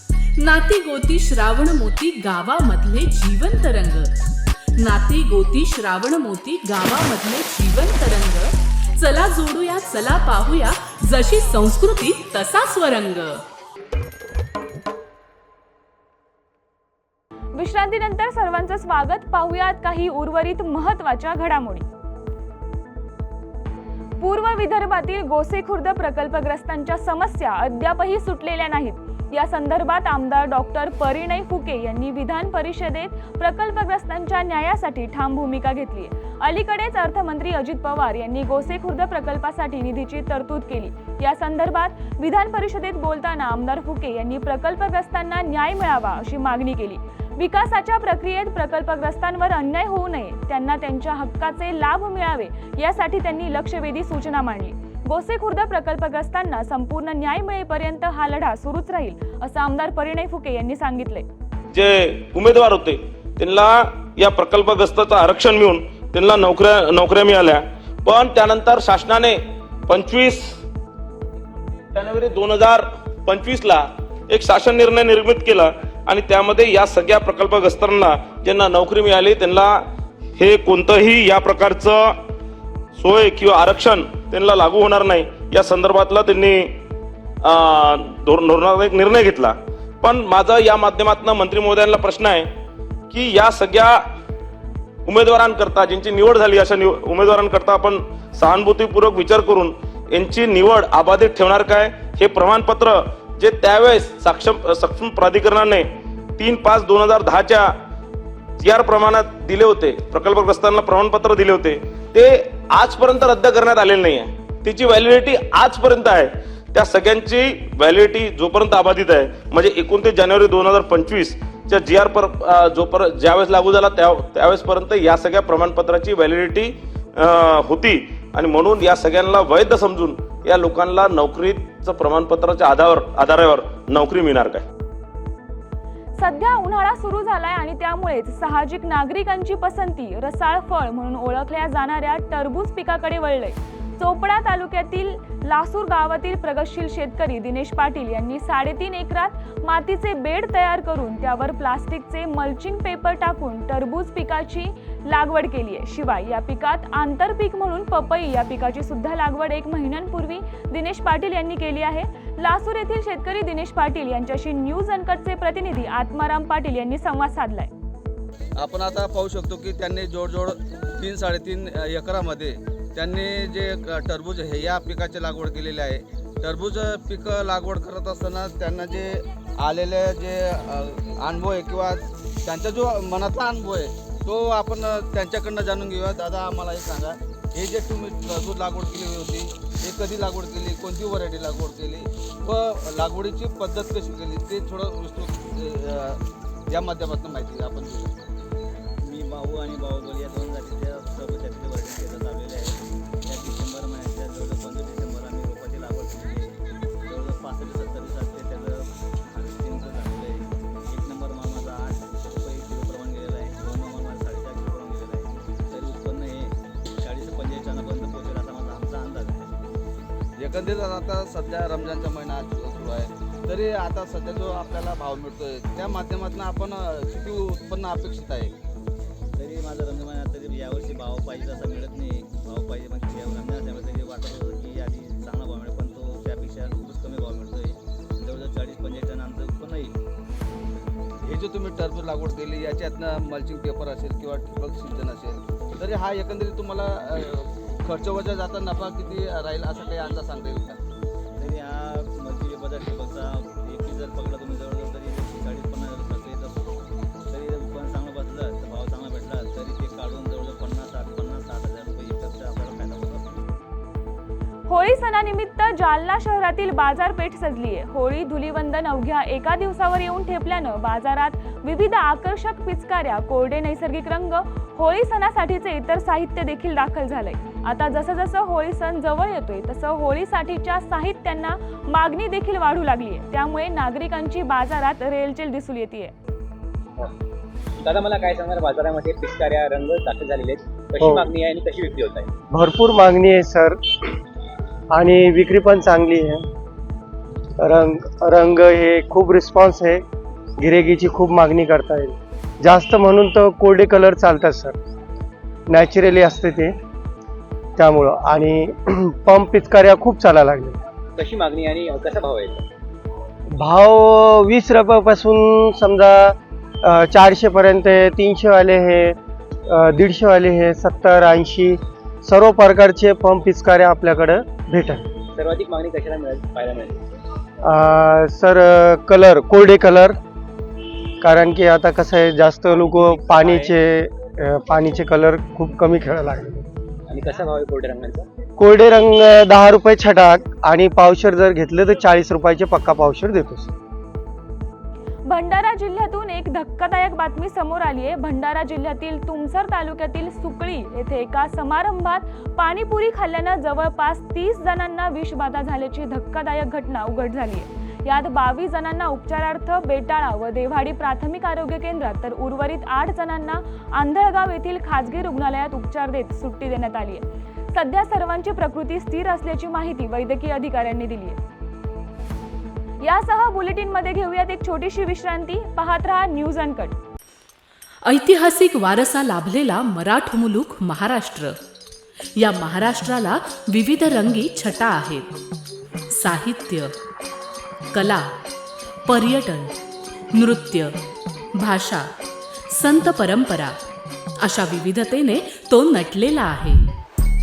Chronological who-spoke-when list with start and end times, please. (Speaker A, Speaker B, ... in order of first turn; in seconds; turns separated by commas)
Speaker A: 0.4-4.1, Speaker A: 4.8-13.4, Speaker B: 17.5-21.8, Speaker B: 24.2-61.2, Speaker C: 61.7-70.4, Speaker C: 71.9-79.8, Speaker C: 80.4-82.1, Speaker C: 83.0-86.7, Speaker C: 87.4-92.5, Speaker C: 93.1-94.0, Speaker C: 95.1-107.7, Speaker C: 108.6-134.6, Speaker B: 136.2-167.7, Speaker D: 168.6-198.3, Speaker E: 199.0-219.5, Speaker D: 220.4-228.5, Speaker E: 229.3-239.9, Speaker D: 241.2-250.8, Speaker E: 251.3-256.6, Speaker E: 257.2-263.2, Speaker B: 264.7-286.1, Speaker F: 287.8-292.3, Speaker G: 292.5-293.7, Speaker G: 294.9-296.4, Speaker G: 297.6-300.0, Speaker G: 300.6-304.7, Speaker G: 305.7-306.7, Speaker G: 307.8-308.7, Speaker G: 309.2-310.7, Speaker F: 311.2-312.6, Speaker G: 313.6-316.3, Speaker G: 316.9-319.1, Speaker G: 319.8-321.8, Speaker G: 322.3-325.0, Speaker F: 325.3-327.0, Speaker G: 327.7-330.1, Speaker G: 331.2-336.6, Speaker F: 332.7-333.8, Speaker F: 337.1-338.2, Speaker G: 338.6-343.7, Speaker B: 345.3-371.4, Speaker B: 373.0-377.0, Speaker A: 378.1-381.6, Speaker A: 382.4-385.2, Speaker A: 386.1-386.9, Speaker A: 387.9-388.3, Speaker A: 389.1-389.7, Speaker A: 390.4-390.9, Speaker A: 391.6-392.1, Speaker A: 392.7-393.8, Speaker A: 394.4-396.9